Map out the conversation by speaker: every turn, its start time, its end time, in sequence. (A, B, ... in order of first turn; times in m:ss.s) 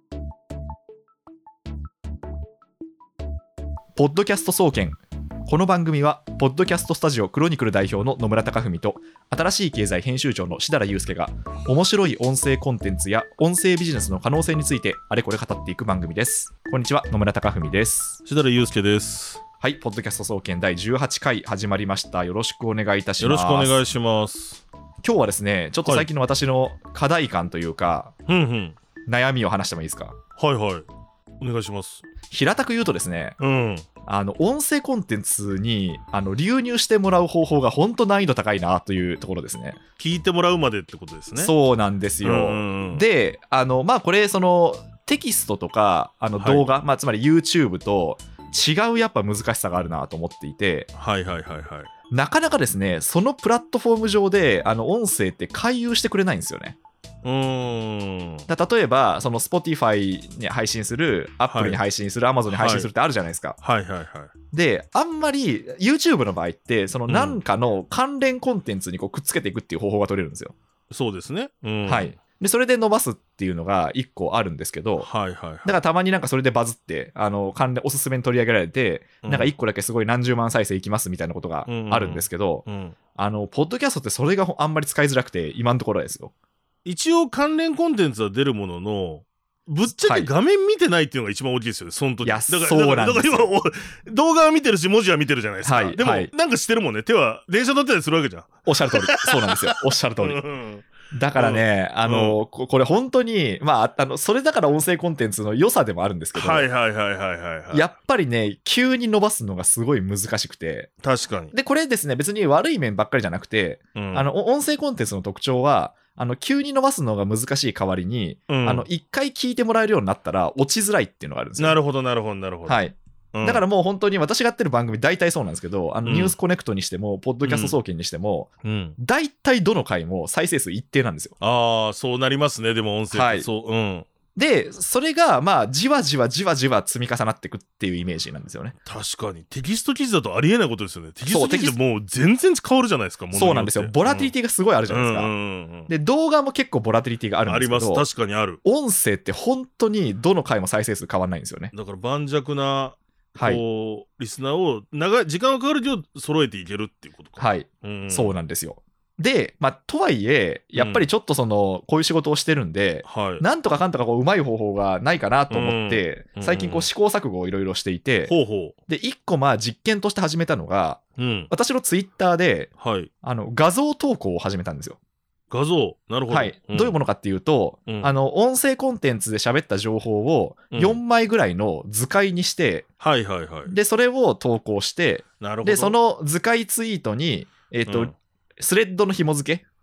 0:04.0-0:18.2 A
0:18.2-0:19.4 B
0:19.6-0:23.8 A
0:23.2-0:24.6 B
0:25.0-0:28.1 A
0:28.3-0:28.8 B
0:29.1-0:30.2 A
0:30.4-0:30.9 B
0:31.4-0:32.1 B
0:32.3-0:33.4 A
0:33.4-0:33.8 B
0:34.0-0:39.8 A
0:40.0-0:41.5 B
0:41.4-0:50.9 A
0:42.2-0:43.0 B
0:46.4-0:46.7 B
0:50.9-0:51.9 B
0:52.1-0:56.8 A
0:57.2-0:58.5 B
0:58.5-1:03.6 A
1:01.5-1:01.8 B
1:02.5-1:02.9 B
1:03.6-1:04.3 B
1:04.5-1:10.5 A
1:07.1-1:07.4 B
1:10.9-1:12.2 B
1:11.8-1:15.1 A
1:15.0-1:15.8 B
1:15.6-1:22.6 A
1:19.2-1:19.5 B
1:21.6-1:23.0 B
1:23.2-1:26.3 A
1:26.8-1:42.4 B
1:29.9-1:30.3 A
1:32.2-1:33.5 A
1:35.6-1:36.3 A
1:38.6-1:40.4 A
1:41.1-1:46.7 A
1:46.3-1:47.9 B
1:47.7-1:50.9 A
1:51.0-1:51.5 B
1:51.5-2:01.8 A
1:53.9-1:54.3 B
1:58.5-1:58.9 B
2:01.6-2:02.8 B
2:02.6-2:11.3 A
2:03.3-2:03.7 B
2:06.0-2:06.4 B
2:07.4-2:07.8 B
2:08.6-2:09.0 B
2:11.4-2:14.1 B
2:13.1-2:13.5 A
2:14.3-2:18.8 A
2:18.8-2:24.3 B
2:21.2-2:21.8 A
2:23.3-2:25.3 A
2:24.9-2:25.9 B
2:25.9-2:28.1 A
2:27.5-2:28.6 B
2:28.6-2:31.7 A
2:31.7-2:38.4 B
2:33.4-2:33.6 A
2:37.4-2:48.4 A
2:40.8-2:41.1 B
2:43.0-2:43.4 B
2:45.5-2:46.9 B
2:48.3-2:48.7 B
2:48.9-2:52.7 A
2:51.2-2:51.5 B
2:52.8-2:53.1 B
2:53.2-2:55.0 A
2:55.5-2:57.0 B
2:56.3-3:02.8 A
2:57.9-2:58.1 B
3:00.7-3:01.0 B
3:03.0-3:03.7 B
3:03.7-3:09.7 A
3:05.4-3:06.0 B
3:07.8-3:08.1 B